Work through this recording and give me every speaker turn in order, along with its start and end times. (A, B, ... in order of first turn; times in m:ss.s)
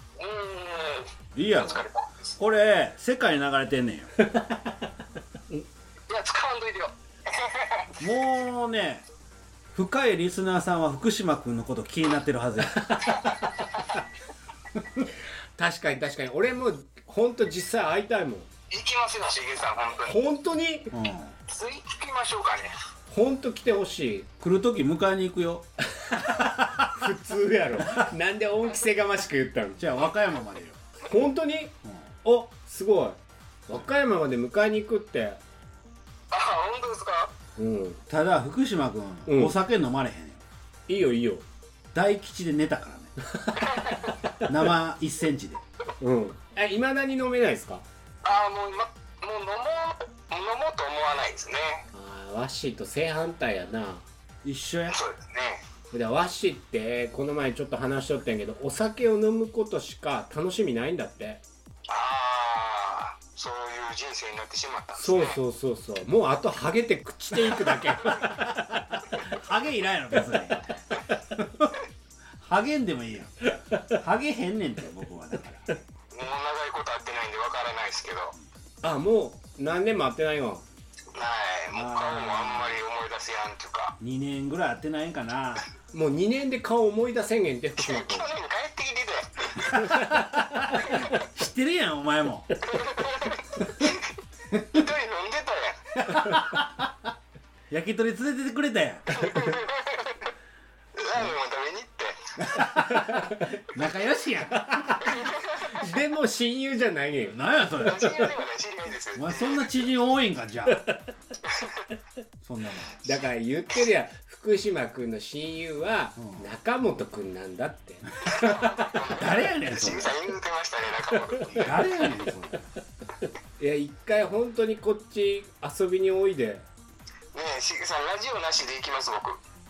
0:00.2-0:02.3 A
0:01.3-0:04.1 B
0:04.2-0:04.8 C
0:06.1-0:08.0 A
0:08.0-0:09.0 B
0:09.7-0:13.2 B
0:13.2-0:13.4 A
0:15.6-0:18.5 C
0:18.7-0:20.2 A
0:20.1-0:20.9 C
0:20.9-0:21.4 B
0:21.5-0:22.8 A
0:23.1-0:24.3 C
0:24.4-0:25.7 B
0:26.3-0:26.8 B
0:26.9-0:29.8 C
0:29.8-0:30.8 B
0:31.0-0:35.4 C
0:36.3-0:37.3 A
0:37.6-0:38.0 C
0:38.1-0:40.4 B
0:39.3-0:39.6 C
0:40.9-0:41.4 C
0:41.9-0:43.1 B
0:43.3-0:43.9 C
0:43.6-0:44.1 A
0:44.4-0:45.6 B
0:46.0-0:47.8 C
0:48.2-0:51.9 A
0:51.9-0:54.1 C
0:54.4-0:55.0 B
0:54.9-0:55.6 A
0:55.9-1:01.4 C
1:01.9-1:05.4 A
1:05.0-1:08.5 C
1:08.0-1:10.7 B
1:11.4-1:11.8 B
1:12.4-1:15.7 B
1:16.1-1:18.4 A
1:18.8-1:20.6 C
1:21.1-1:24.0 A
1:21.7-1:22.8 B
1:24.0-1:25.7 B
1:25.9-1:28.3 C
1:27.8-1:29.9 A
1:29.8-1:30.2 C
1:29.9-1:32.5 B
1:30.8-1:31.2 C
1:32.6-1:34.1 A
1:34.6-1:34.8 B
1:34.6-1:36.2 A
1:36.0-1:36.9 B
1:37.7-1:39.3 B
1:39.1-1:40.3 A
1:41.0-1:42.3 A
1:42.4-1:45.3 B
1:42.8-1:43.6 C
1:45.1-1:45.8 A
1:45.7-1:47.4 C
1:47.3-1:48.1 B
1:47.8-1:49.7 A
1:49.1-1:50.8 B
1:51.4-1:51.8 A
1:52.4-1:53.0 B
1:53.0-1:59.0 C
1:56.2-1:56.5 B
1:58.2-2:01.8 A
1:59.2-2:00.2 B
2:01.6-2:02.7 B
2:03.6-2:06.7 C
2:07.3-2:09.4 A